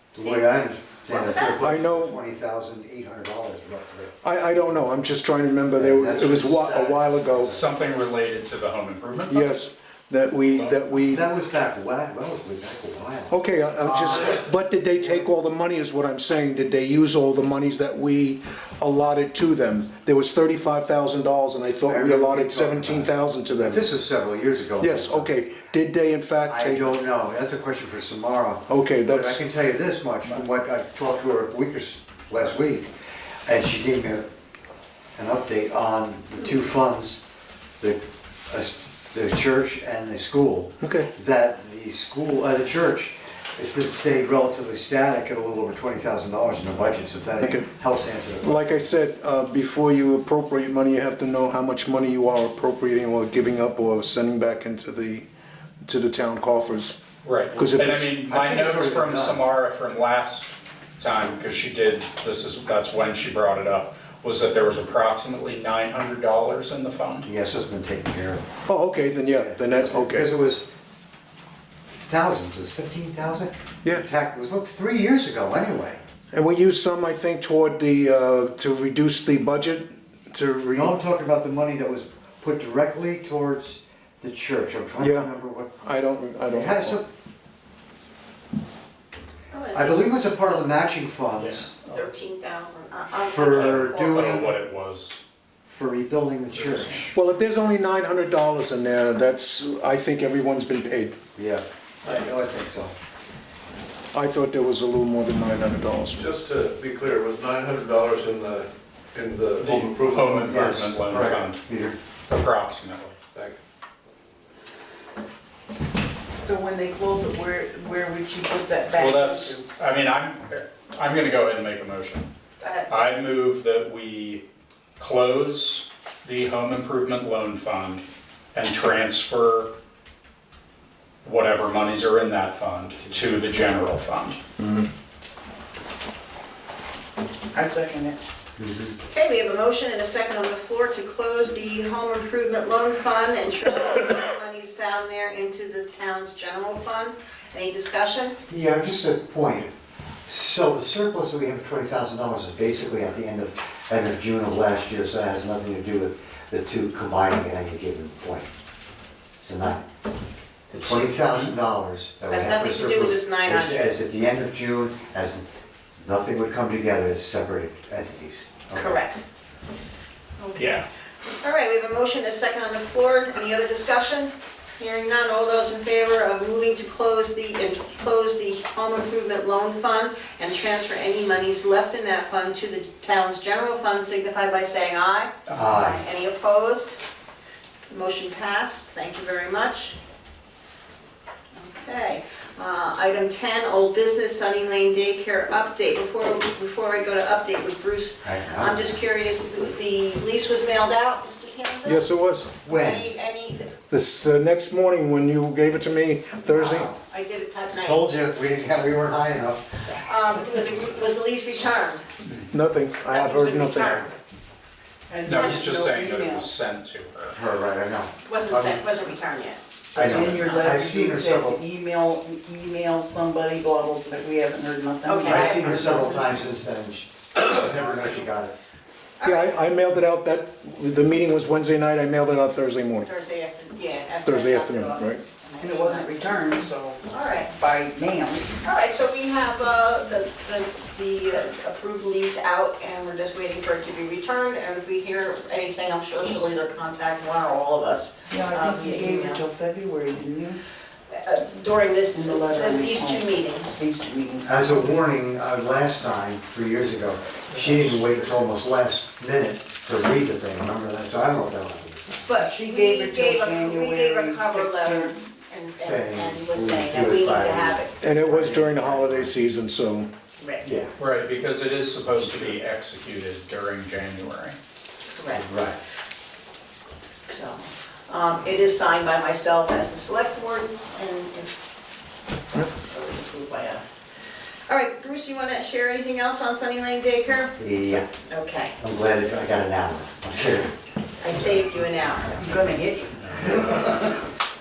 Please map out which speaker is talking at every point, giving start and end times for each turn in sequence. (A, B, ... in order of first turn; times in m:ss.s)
0:00.1-0:04.2 A
0:00.2-0:01.6 B
0:01.6-0:02.2 C
0:04.2-0:07.6 C
0:05.7-0:07.7 A
0:07.5-0:09.5 D
0:09.3-0:11.3 C
0:10.5-0:10.8 D
0:11.0-0:15.3 A
0:13.3-0:23.8 C
0:21.9-0:25.3 A
0:24.8-0:27.0 C
0:26.5-0:32.9 A
0:28.7-0:29.4 C
0:33.4-0:34.3 A
0:35.2-0:37.2 A
0:37.8-0:48.6 A
0:40.8-0:41.1 C
0:47.4-0:47.7 C
0:48.4-0:55.3 C
0:55.8-0:57.0 C
0:57.2-1:07.3 D
0:57.6-0:58.1 C
0:57.7-0:59.5 A
1:07.2-1:08.5 A
1:08.7-1:10.3 C
1:09.3-1:10.7 A
1:11.9-1:16.0 A
1:16.3-1:20.9 C
1:20.7-1:25.8 A
1:25.0-1:27.0 C
1:26.5-1:27.1 A
1:29.5-1:30.1 B
1:29.7-1:32.0 A
1:31.4-1:31.7 D
1:31.8-1:34.5 B
1:33.1-1:34.5 A
1:33.4-1:35.2 D
1:35.7-1:37.2 A
1:36.5-1:37.1 D
1:37.1-1:41.2 C
1:41.4-1:43.0 A
1:44.1-1:46.3 C
1:46.2-1:50.6 E
1:49.6-1:51.6 D
1:50.5-1:52.0 A
1:52.3-1:53.2 D
1:56.4-1:59.6 F
1:59.0-2:02.3 D
2:02.6-2:03.0 B
2:02.9-2:04.4 D
2:05.0-2:09.7 D
2:11.2-2:14.4 D
2:17.5-2:18.2 F
2:18.6-2:19.0 A
2:19.1-2:28.4 B
2:28.5-2:29.7 A
2:30.3-2:38.5 A
2:39.4-2:39.8 A
2:40.7-2:45.4 A
2:42.3-2:44.0 B
2:46.0-2:49.0 A
2:48.7-2:49.2 B
2:50.4-2:50.8 B
2:50.6-2:50.9 D
2:51.4-3:07.0 B
3:05.5-3:05.8 D
3:05.5-3:06.0 A
3:07.9-3:10.0 B
3:11.6-3:22.0 B
3:18.2-3:18.9 A
3:21.8-3:22.5 C
3:22.6-3:23.0 A
3:22.6-3:23.7 B
3:23.9-3:26.9 C
3:26.5-3:28.0 B
3:27.8-3:29.8 A
3:29.8-3:32.1 B
3:32.5-3:34.1 C
3:33.1-3:34.2 B
3:35.1-3:36.5 F
3:35.2-3:37.4 D
3:37.4-3:38.8 A
3:38.2-3:40.7 B
3:40.0-3:41.6 A
3:40.0-3:46.4 F
3:45.0-3:45.8 B
3:45.3-3:48.5 A
3:49.2-3:49.6 B
3:49.2-3:53.1 C
3:53.0-3:56.5 B
3:54.2-3:55.2 C
3:55.6-3:58.6 F
3:57.0-3:57.5 B
3:58.6-4:09.4 B
4:08.3-4:10.6 F
4:11.1-4:13.8 B
4:12.1-4:14.9 F
4:14.4-4:22.3 A
4:17.5-4:18.5 D
4:22.3-4:28.1 B
4:22.3-4:25.2 F
4:25.8-4:29.4 A
4:28.0-4:30.1 C
4:30.4-4:30.7 B
4:30.6-4:31.0 A
4:31.0-4:34.6 D
4:32.1-4:32.6 A
4:35.1-4:35.4 B
4:35.3-4:35.8 A
4:37.3-4:41.6 B
4:42.5-4:43.9 B
4:44.7-4:48.8 B
4:47.6-4:48.1 A
4:48.8-4:50.8 A
4:51.2-4:52.4 B
4:52.4-4:53.9 F
4:53.2-4:54.1 D